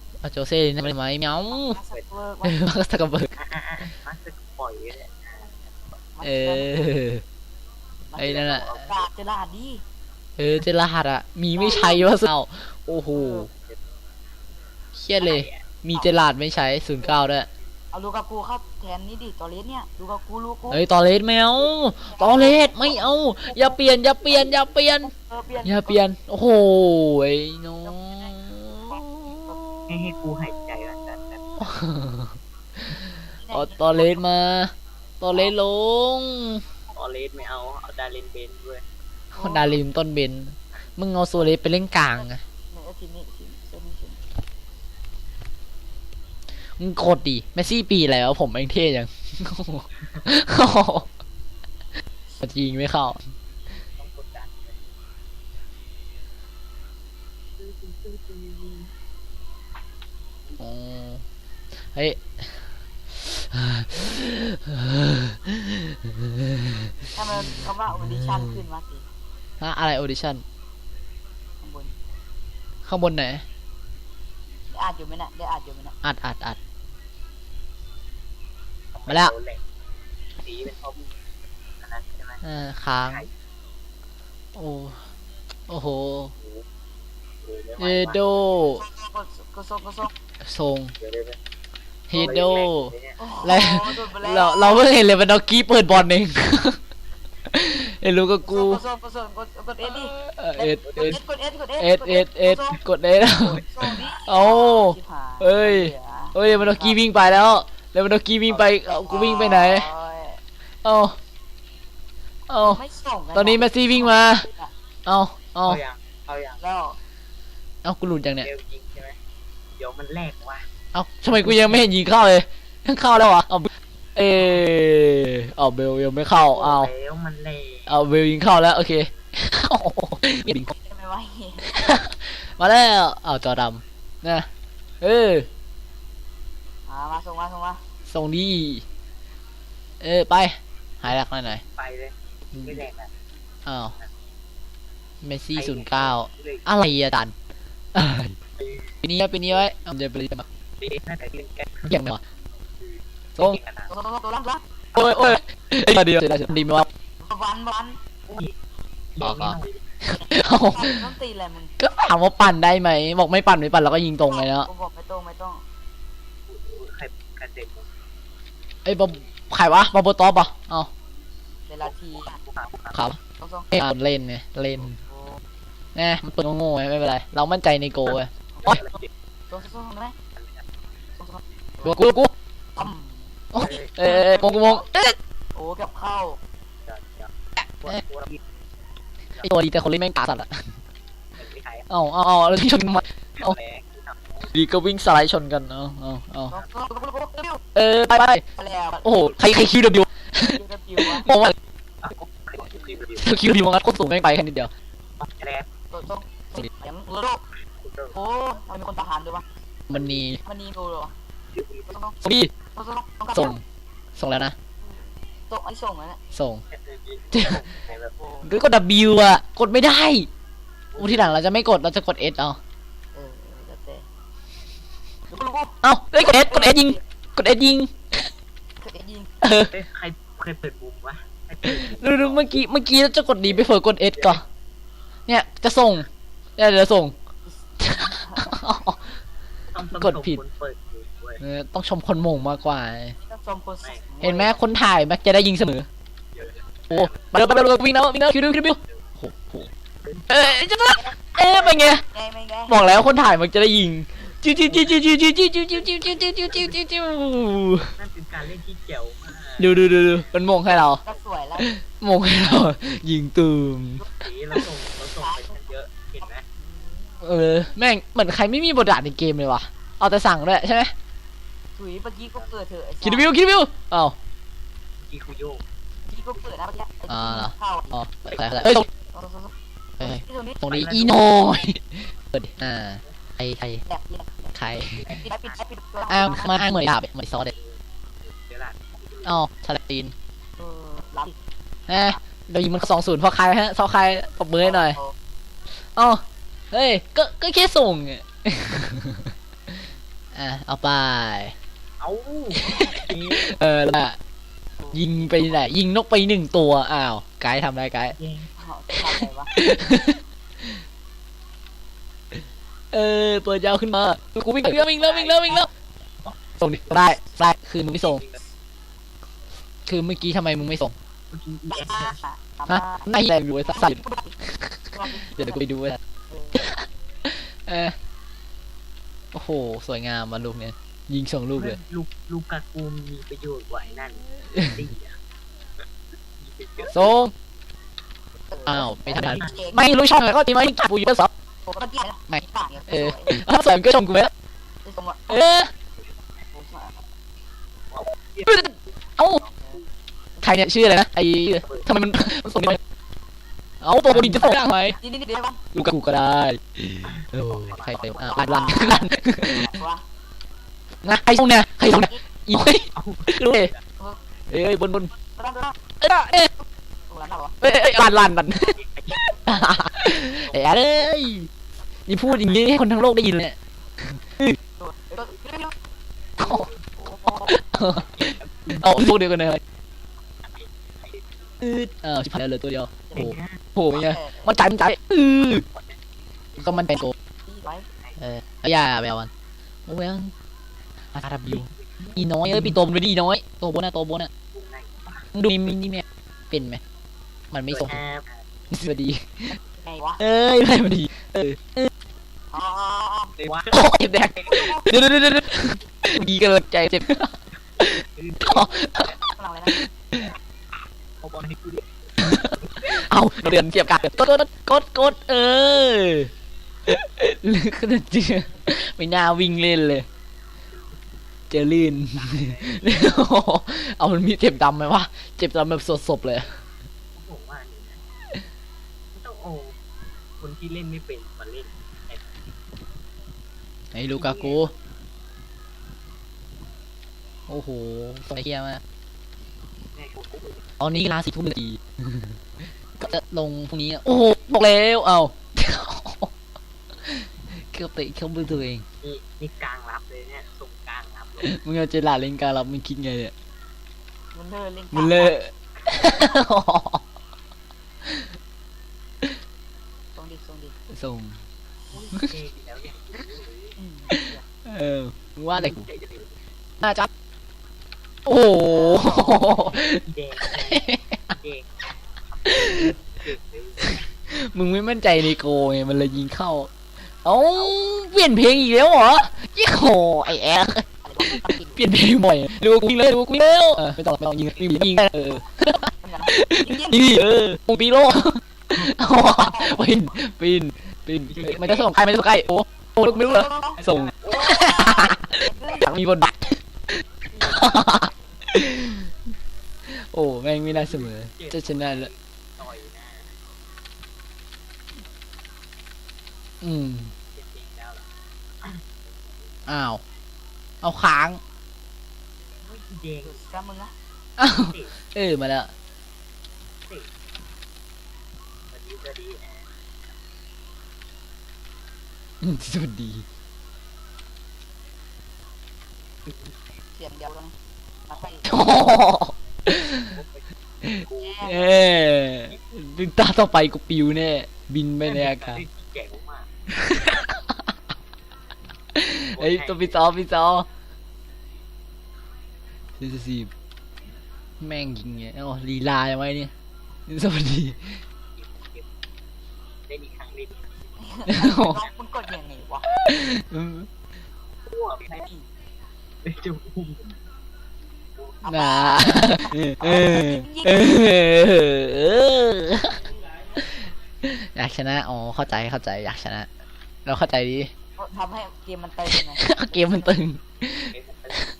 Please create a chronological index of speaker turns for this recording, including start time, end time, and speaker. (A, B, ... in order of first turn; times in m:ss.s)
0:00.2-0:01.8 A
0:01.5-0:02.5 B
0:02.4-0:03.3 A
0:03.4-0:05.5 C
0:06.1-0:06.7 B
0:06.2-0:07.2 A
0:08.1-0:09.8 B
0:08.2-0:08.8 A
0:10.4-0:13.5 A
0:11.6-0:12.1 B
0:13.1-0:13.5 B
0:14.9-0:17.5 A
0:15.2-0:15.6 C
0:17.9-0:20.8 B
0:20.7-0:25.1 A
0:22.0-0:26.0 B
0:25.6-0:29.6 A
0:27.8-0:29.6 B
0:29.9-0:31.6 C
0:31.6-0:36.6 A
0:33.4-0:34.2 B
0:36.9-0:38.8 C
0:39.3-0:39.8 B
0:39.4-0:42.4 A
0:42.1-0:44.2 B
0:46.8-0:51.1 A
0:52.4-0:53.2 A
0:54.0-0:54.9 C
0:57.6-0:58.9 C
1:00.6-1:01.2 A
1:01.9-1:06.7 A
1:07.1-1:09.0 B
1:07.4-1:08.6 A
1:09.6-1:10.4 A
1:11.6-1:11.9 B
1:12.8-1:13.4 A
1:14.7-1:16.0 B
1:16.0-1:16.6 A
1:18.9-1:19.6 C
1:19.1-1:19.3 A
1:20.4-1:21.1 C
1:21.8-1:22.4 C
1:22.4-1:23.3 A
1:23.0-1:23.3 C
1:24.6-1:25.0 A
1:25.7-1:26.3 A
1:27.4-1:28.4 C
1:27.8-1:28.8 A
1:28.8-1:30.1 B
1:30.4-1:30.9 A
1:31.0-1:31.4 C
1:32.1-1:36.8 A
1:32.1-1:33.2 C
1:33.2-1:34.9 B
1:37.5-1:38.8 A
1:38.4-1:42.8 B
1:39.8-1:41.2 A
1:40.8-1:41.2 C
1:41.8-1:49.9 A
1:43.3-1:47.0 B
1:48.5-1:48.8 C
1:48.9-1:50.4 B
1:50.8-1:51.2 A
1:52.5-1:52.8 A
1:52.6-1:54.7 B
1:53.3-1:54.5 A
1:55.0-1:55.8 A
1:55.6-1:56.6 C
1:56.6-1:57.0 B
1:57.8-1:58.5 A
1:58.4-1:59.2 C
1:59.8-2:00.7 C
2:00.9-2:06.9 A
2:06.3-2:07.9 C
2:07.9-2:10.7 A
2:10.7-2:11.7 B
2:11.7-2:14.4 A
2:15.0-2:15.5 A
2:16.9-2:17.8 B
2:18.1-2:18.8 A
2:20.0-2:21.6 A
2:21.8-2:23.1 C
2:22.5-2:22.8 A
2:23.6-2:23.9 A
2:25.2-2:27.3 A
2:25.5-2:26.7 C
2:27.9-2:28.3 A
2:28.6-2:28.9 C
2:29.0-2:30.4 A
2:30.8-2:32.0 C
2:31.9-2:32.2 A
2:32.8-2:33.9 C
2:33.9-2:34.6 B
2:34.9-2:36.9 A
2:37.2-2:38.0 B
2:38.3-2:38.5 C
2:39.1-2:39.9 C
2:39.2-2:39.6 A
2:40.1-2:41.7 B
2:40.1-2:41.1 A
2:41.8-2:44.7 A
2:44.3-2:45.6 B
2:46.5-2:47.9 C
2:48.8-2:50.9 A
2:51.7-2:52.4 B
2:51.8-2:53.0 C
2:52.9-2:53.2 A
2:53.4-2:53.7 B
2:53.7-2:55.0 A
2:55.1-2:55.3 B
2:56.0-2:58.8 A
2:58.5-2:58.8 B
2:58.6-2:59.1 C
2:59.5-3:00.2 B
3:00.4-3:00.6 C
3:01.2-3:02.0 B
3:01.8-3:02.3 A
3:02.8-3:03.4 B
3:03.5-3:05.2 A
3:03.5-3:03.9 C
3:04.0-3:04.8 B
3:05.5-3:06.4 B
3:06.8-3:08.4 C
3:09.4-3:10.6 A
3:11.4-3:11.9 C
3:11.9-3:13.6 A
3:13.4-3:14.5 C
3:14.5-3:16.6 A
3:16.5-3:17.6 B
3:17.7-3:18.4 A
3:18.6-3:19.1 B
3:19.0-3:21.5 A
3:20.4-3:21.3 B
3:22.0-3:23.2 C
3:23.2-3:24.7 A
3:25.2-3:25.7 C
3:25.9-3:27.4 B
3:27.8-3:28.2 C
3:28.1-3:29.4 B
3:29.9-3:30.4 A
3:30.3-3:31.1 B
3:31.5-3:31.9 C
3:31.9-3:32.2 B
3:32.2-3:32.5 A
3:32.7-3:33.6 B
3:33.3-3:33.6 A
3:34.2-3:34.5 A
3:34.8-3:36.2 B
3:36.3-3:36.6 A
3:36.7-3:38.1 C
3:37.3-3:37.6 A
3:38.2-3:38.5 B
3:38.4-3:40.3 A
3:40.9-3:41.4 C
3:41.0-3:42.6 A
3:43.1-3:44.0 B
3:45.3-3:45.8 B
3:45.8-3:48.2 A
3:46.3-3:47.0 B
3:48.8-3:49.3 B
3:49.4-3:49.7 A
3:49.7-3:52.6 C
3:51.6-3:54.4 A
3:53.4-3:54.4 C
3:55.3-3:57.2 A
3:57.8-3:58.5 B
3:57.8-3:59.0 A
3:59.7-4:01.4 C
4:00.0-4:00.4 A
4:01.4-4:03.2 A
4:03.2-4:04.6 B
4:04.2-4:05.9 A
4:06.3-4:07.3 C
4:06.9-4:09.7 A
4:10.0-4:10.6 C
4:10.3-4:12.0 A
4:11.4-4:12.8 B
4:12.7-4:17.9 A
4:14.7-4:14.9 C
4:15.7-4:16.8 C
4:18.0-4:21.2 C
4:19.6-4:21.0 A
4:21.0-4:21.7 B
4:21.6-4:24.1 A
4:24.0-4:26.4 C
4:25.2-4:25.6 B
4:26.6-4:27.1 B
4:27.2-4:30.9 A
4:31.8-4:33.3 B
4:33.0-4:34.2 A
4:35.0-4:35.6 C
4:36.1-4:38.0 B
4:37.1-4:38.9 A
4:38.3-4:38.6 C
4:39.1-4:40.6 B
4:40.0-4:43.8 A
4:40.7-4:41.7 C
4:43.8-4:44.5 B
4:44.5-4:45.1 A
4:44.9-4:45.6 C
4:45.2-4:46.7 B
4:46.1-4:47.5 A
4:47.4-4:49.4 C
4:49.2-4:50.1 A
4:50.6-4:51.4 B
4:51.9-4:55.0 A
4:54.6-4:55.1 B
4:55.9-4:59.3 A
5:00.3-5:01.5 A
5:02.0-5:03.6 C
5:02.6-5:04.2 A
5:04.8-5:05.0 B
5:04.9-5:08.1 A
5:08.1-5:08.5 C
5:08.6-5:09.5 B
5:08.9-5:10.7 A
5:12.9-5:15.7 A
5:15.0-5:15.7 C
5:16.6-5:18.2 A
5:18.0-5:18.4 C
5:19.8-5:20.9 A
5:21.3-5:22.2 C
5:21.7-5:23.1 B
5:22.7-5:26.0 A
5:23.6-5:24.4 B
5:24.9-5:25.6 B
5:26.3-5:26.6 B
5:26.5-5:27.9 A
5:29.3-5:31.8 A
5:31.5-5:35.2 C
5:34.5-5:34.8 A
5:36.4-5:37.0 C
5:36.9-5:37.3 A
5:38.5-5:39.8 B
5:38.6-5:41.3 A
5:39.1-5:39.7 C
5:41.6-5:43.4 B
5:42.3-5:44.3 A
5:44.8-5:45.4 B
5:45.3-5:45.7 A
5:46.5-5:47.0 B
5:47.9-5:48.6 C
5:48.4-5:49.4 A
5:50.4-5:52.8 A
5:53.8-5:55.0 A
5:54.1-5:55.6 B
5:55.7-5:59.8 A
5:57.0-5:58.9 C
5:58.3-5:59.0 B
5:59.6-6:00.0 B
6:01.0-6:03.7 A
6:03.0-6:03.8 C
6:04.5-6:05.1 A
6:05.3-6:05.8 B
6:06.0-6:06.5 A
6:07.1-6:07.6 B
6:07.6-6:11.5 A
6:08.7-6:09.3 C
6:10.4-6:10.8 C
6:12.1-6:14.6 A
6:14.8-6:15.7 B
6:16.4-6:16.7 A
6:16.4-6:16.8 C
6:17.0-6:17.6 B
6:17.5-6:19.6 A
6:18.1-6:18.9 C
6:20.4-6:21.3 C
6:21.6-6:25.6 A
6:23.1-6:23.6 C
6:23.9-6:24.5 B
6:25.7-6:26.0 C
6:26.5-6:26.8 C
6:26.6-6:27.1 A
6:27.4-6:27.9 B
6:28.2-6:29.3 A
6:29.9-6:30.3 A
6:31.1-6:34.3 A
6:31.4-6:32.8 C
6:34.5-6:35.3 C
6:35.3-6:36.8 A
6:37.5-6:38.0 A
6:37.7-6:38.4 C
6:38.7-6:39.6 A
6:39.8-6:40.2 B
6:40.2-6:41.9 A
6:42.5-6:43.3 B
6:43.4-6:43.8 C
6:43.7-6:50.3 A
6:44.4-6:44.6 C
6:47.8-6:49.2 C
6:49.3-6:49.7 B
6:51.2-6:53.0 C
6:52.2-6:56.3 A
6:56.8-7:00.1 A
7:01.5-7:06.5 A
7:02.1-7:03.3 C
7:07.2-7:08.0 C
7:09.1-7:09.7 C
7:10.4-7:12.2 C
7:13.9-7:14.7 A
7:14.1-7:14.7 C
7:17.5-7:18.8 A
7:19.9-7:21.0 C
7:20.8-7:22.4 A
7:23.0-7:26.3 A
7:27.0-7:28.8 A
7:29.0-7:31.5 C
7:31.4-7:33.3 A
7:34.3-7:35.4 B
7:34.9-7:37.0 A
7:35.8-7:36.2 C
7:40.2-7:40.8 B
7:40.9-7:41.4 A
7:41.9-7:43.8 C
7:43.8-7:44.4 B
7:44.1-7:45.9 A
7:45.5-7:46.4 C
7:46.8-7:47.1 A
7:48.2-7:51.3 A
7:48.9-7:49.5 B
7:48.9-7:51.7 C
7:52.3-7:54.1 C
7:52.5-7:52.9 A
7:53.8-7:56.7 A
7:57.2-8:19.1 A
8:01.0-8:01.8 B
8:06.0-8:07.0 B
8:09.3-8:09.9 B
8:11.2-8:11.9 C
8:13.1-8:15.9 B
8:13.8-8:14.7 C
8:17.3-8:17.7 B
8:19.9-8:22.1 A
8:20.6-8:23.3 C
8:26.6-8:27.1 A
8:27.3-8:28.1 C
8:28.6-8:29.5 C
8:29.7-8:30.0 A
8:30.8-8:31.4 A
8:32.6-8:33.6 C
8:33.2-8:33.9 B
8:34.4-8:35.7 A
8:34.5-8:34.9 C
8:36.8-8:37.1 C
8:38.7-8:39.7 C
8:42.4-8:43.2 A
8:46.2-8:46.6 C
8:46.9-8:47.5 B
8:48.1-8:48.5 B
8:48.5-8:50.1 A
8:50.1-8:51.7 C
8:50.8-8:55.6 A
8:51.2-8:51.7 B
8:55.0-8:56.5 C
8:56.7-8:57.6 A
8:58.9-9:00.7 A
8:59.4-9:00.2 C
9:03.0-9:03.5 A
9:04.6-9:06.5 A
9:07.1-9:08.0 A
9:08.3-9:08.9 C
9:09.9-9:10.7 C
9:11.0-9:12.9 B
9:11.3-9:11.8 A
9:13.0-9:13.9 A
9:14.7-9:15.3 C
9:15.2-9:15.5 B
9:16.2-9:17.2 C
9:18.2-9:18.4 C
9:18.4-9:20.9 B
9:18.5-9:26.5 A
9:27.0-9:27.7 A
9:28.0-9:30.2 B
9:29.1-9:31.3 A
9:30.9-9:31.4 C